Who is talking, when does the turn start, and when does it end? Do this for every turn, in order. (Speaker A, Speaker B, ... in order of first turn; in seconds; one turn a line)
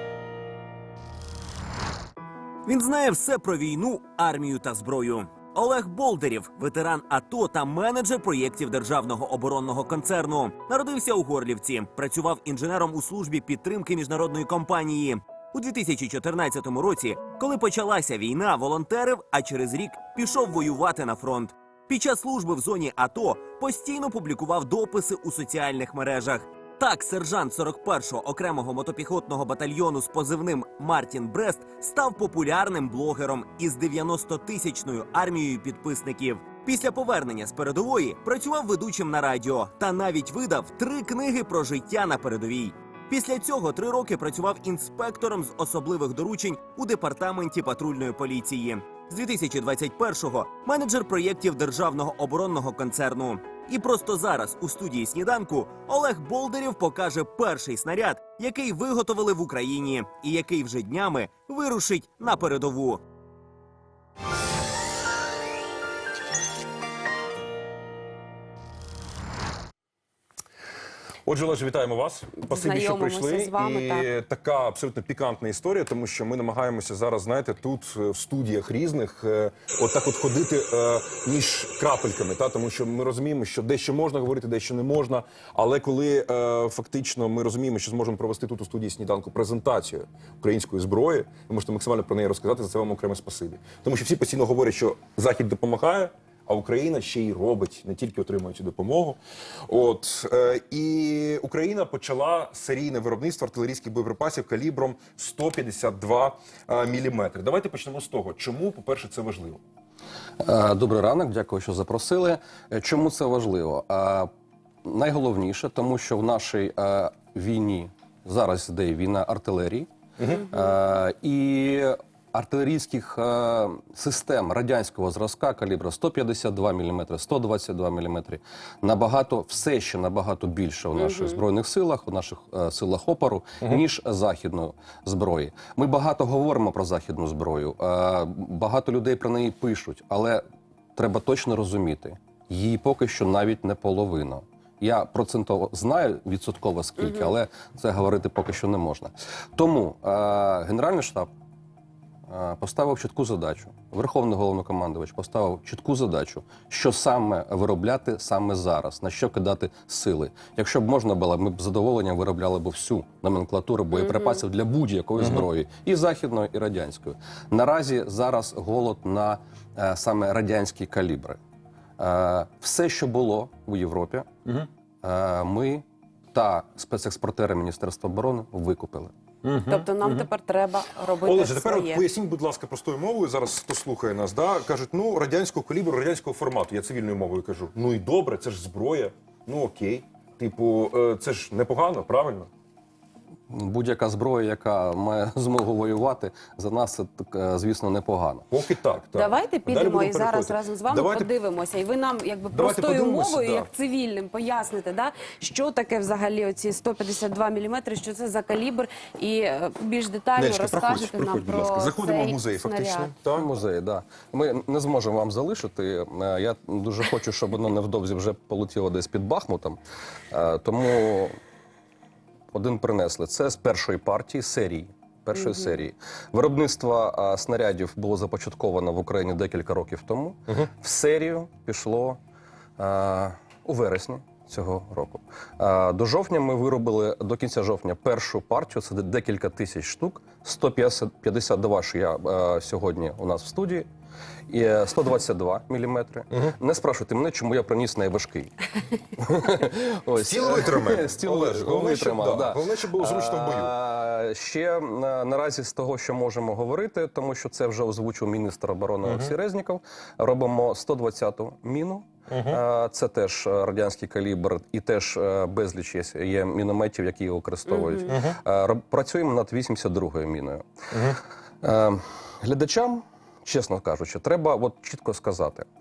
Speaker A: 2.6-63.0
Speaker B: 71.2-109.6
Speaker C: 72.4-74.1
Speaker D: 110.4-114.3
Speaker D: 114.8-140.4
Speaker B: 120.2-120.5
Speaker C: 130.9-131.4
Speaker D: 140.9-151.3
Speaker C: 147.0-147.3
Speaker D: 152.3-171.4
Speaker C: 163.9-164.4
Speaker B: 165.2-165.5
Speaker D: 172.0-174.3
Speaker D: 175.0-179.1
Speaker B: 179.4-180.3
Speaker C: 179.7-182.1
Speaker B: 181.2-192.5
Speaker D: 193.5-198.4
Speaker B: 198.5-201.3
Speaker C: 199.1-213.1
Speaker B: 202.5-203.7
Speaker B: 210.3-213.5
Speaker D: 213.3-219.8
Speaker D: 220.3-221.3
Speaker D: 222.5-232.2
Speaker C: 225.3-225.8
Speaker D: 232.8-243.9
Speaker D: 244.5-248.5
Speaker D: 249.1-270.6
Speaker B: 250.1-253.7
Speaker B: 259.0-259.3
Speaker B: 262.3-262.6
Speaker C: 267.7-268.1
Speaker B: 268.1-268.4
Speaker B: 270.9-271.2
Speaker D: 271.6-275.7